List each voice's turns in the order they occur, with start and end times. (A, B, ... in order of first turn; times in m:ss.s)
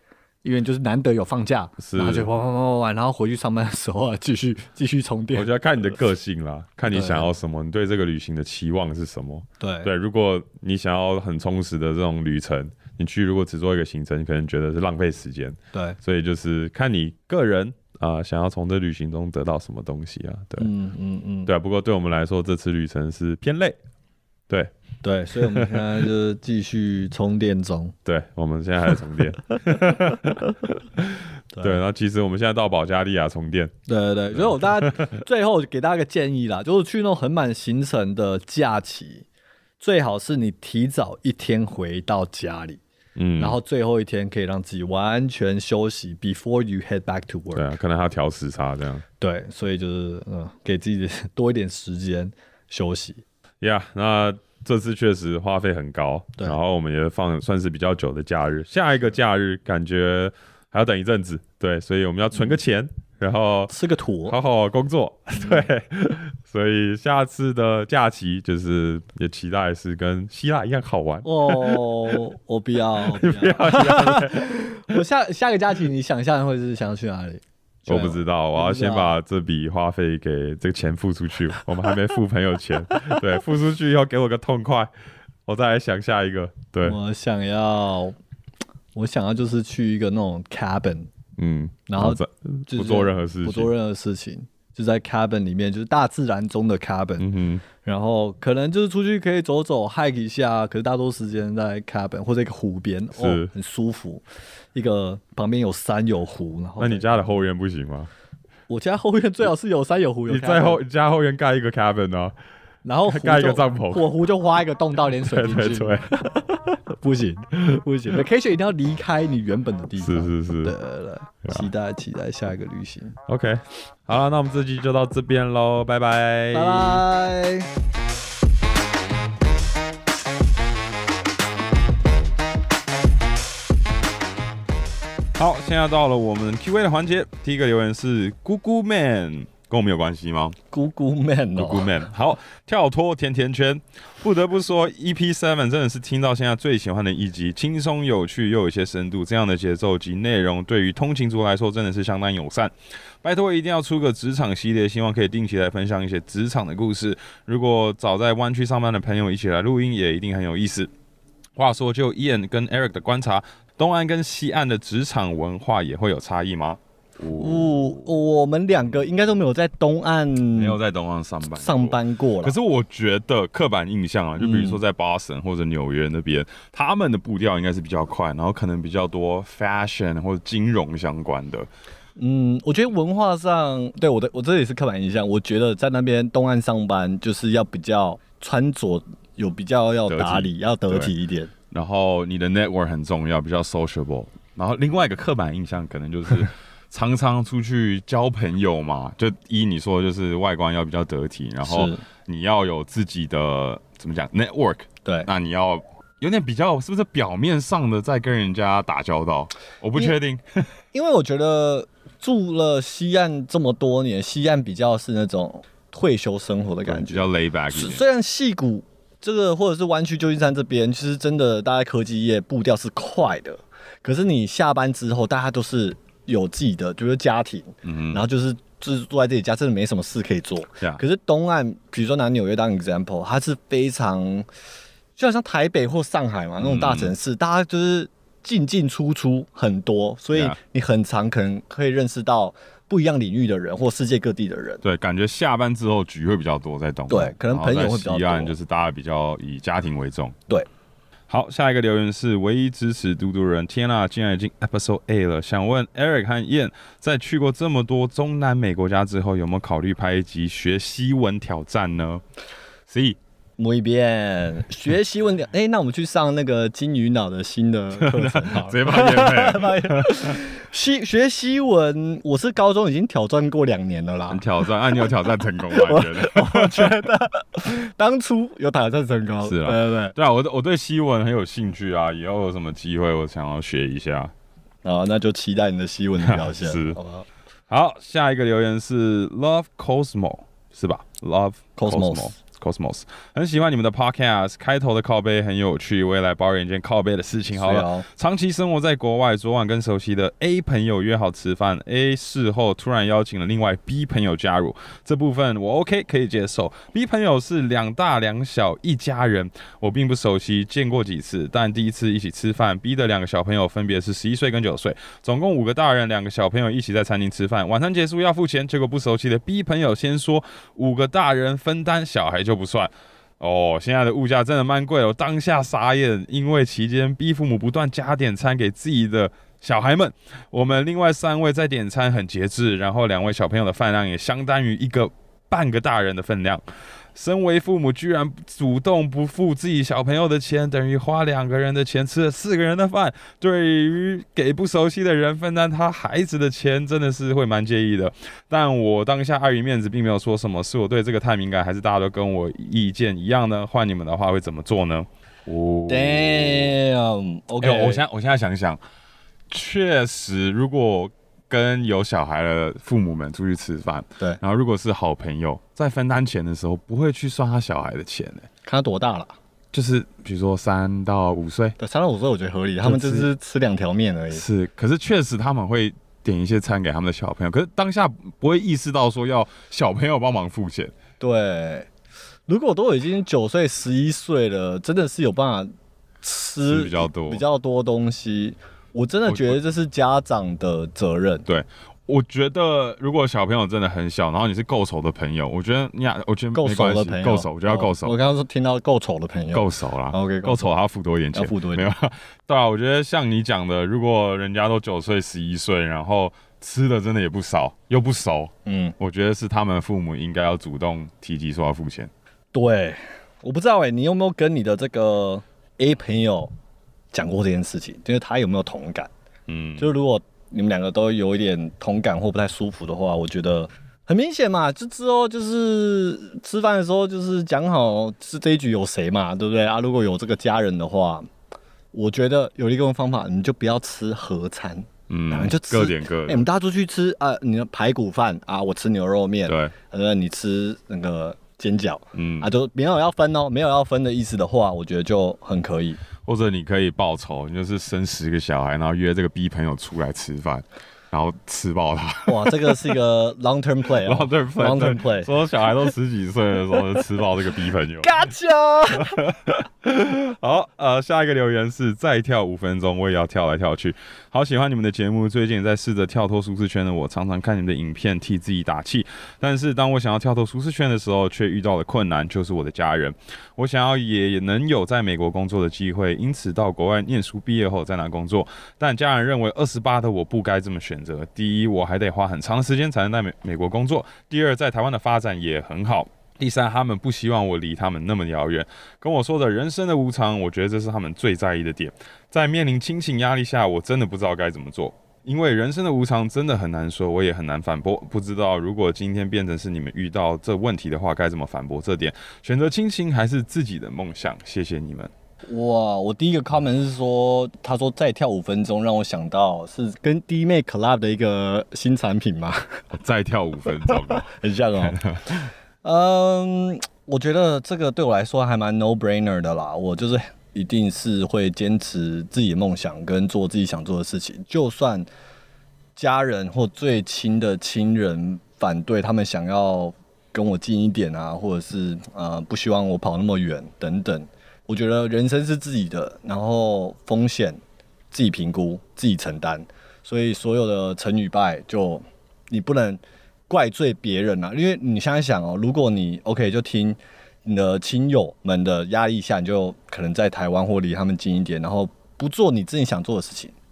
0:00.4-0:05.5 A
0:01.8-0:02.3 B
0:05.3-0:20.7 B
0:06.9-0:07.3 A
0:09.6-0:09.9 A
0:15.7-0:16.0 A
0:20.6-0:21.5 A
0:21.5-0:23.8 B
0:25.0-0:27.9 A
0:25.4-0:25.9 B
0:28.0-0:33.7 B
0:30.1-0:30.6 A
0:31.5-0:31.8 A
0:33.9-0:39.2 A
0:34.3-0:35.2 B
0:39.8-0:42.8 A
0:43.2-0:43.6 B
0:43.4-0:47.7 A
0:47.5-0:49.0 B
0:49.2-0:53.2 A
0:53.6-1:03.7 B
1:02.3-1:02.6 A
1:03.7-1:04.4 A
1:04.3-1:12.2 B
1:05.3-1:05.6 A
1:11.2-1:19.1 A
1:13.0-1:15.0 B
1:17.9-1:24.9 B
1:25.4-1:27.0 B
1:26.8-1:28.2 A
1:28.9-1:31.1 A
1:31.4-1:33.7 B
1:31.9-1:37.3 A
1:37.2-1:37.6 B
1:37.8-1:44.2 A
1:43.1-1:43.5 B
1:44.7-1:47.2 A
1:46.8-1:48.1 B
1:48.7-1:50.8 A
1:50.3-1:52.4 B
1:52.8-2:03.2 A
1:53.0-1:54.0 B
1:55.2-1:56.1 B
2:00.0-2:00.7 B
2:03.3-2:07.0 B
2:06.5-2:07.7 A
2:15.4-2:20.6 B
2:20.7-2:22.0 A
2:21.6-2:32.7 B
2:33.2-2:40.9 B
2:41.6-2:48.1 B
2:47.3-2:50.8 A
2:50.5-3:01.7 B
2:51.6-2:52.5 A
2:54.4-2:54.8 A
3:02.2-3:11.5 A
3:10.1-3:11.1 B
3:11.7-3:30.4 B
3:21.6-3:22.0 A
3:30.9-3:54.5 A
3:36.8-3:38.0 B
3:47.8-3:48.2 B
3:55.2-4:04.8 A
3:56.6-3:57.1 B
4:04.8-4:10.4 B
4:07.1-4:08.5 A
4:11.3-4:22.2 B
4:22.9-4:23.2 B
4:23.6-4:34.4 A
4:27.9-4:30.4 B
4:34.3-4:37.0 B
4:35.7-4:40.1 A
4:39.4-4:44.3 B
4:44.8-4:47.2 A
4:46.2-4:47.0 B
4:47.7-5:36.6 B
4:51.8-4:52.3 A
4:57.5-4:58.1 A
5:37.1-5:56.7 B
5:55.9-5:58.0 A
5:57.6-5:58.8 B
5:59.5-6:08.5 B
6:08.6-6:09.3 A
6:09.7-6:11.8 B
6:11.8-6:14.4 A
6:12.8-6:13.3 B
6:14.3-6:20.9 B
6:21.2-6:21.9 A
6:22.5-6:25.7 A
6:26.2-6:31.4 A
6:26.6-6:27.4 B
6:29.2-6:29.6 B
6:31.5-6:38.1 B
6:36.5-6:40.7 A
6:39.5-6:52.1 B
6:41.3-6:41.9 A
6:48.6-6:48.9 A
6:52.5-6:56.5 A
6:57.1-6:59.1 A
6:59.5-6:59.9 B
6:59.8-7:11.3 A
7:11.9-7:26.0 A
7:15.1-7:16.4 B
7:19.4-7:19.7 B
7:22.1-7:22.5 B
7:26.2-7:32.9 B
7:32.2-7:35.3 A
7:34.0-7:38.1 B
7:38.0-7:39.2 A
7:39.1-8:25.1 B
8:25.5-8:32.8 A
8:32.9-8:34.3 B
8:33.8-8:35.0 A
8:34.8-8:35.5 B
8:35.8-8:45.1 A
8:46.0-8:57.6 A
8:58.1-9:13.5 A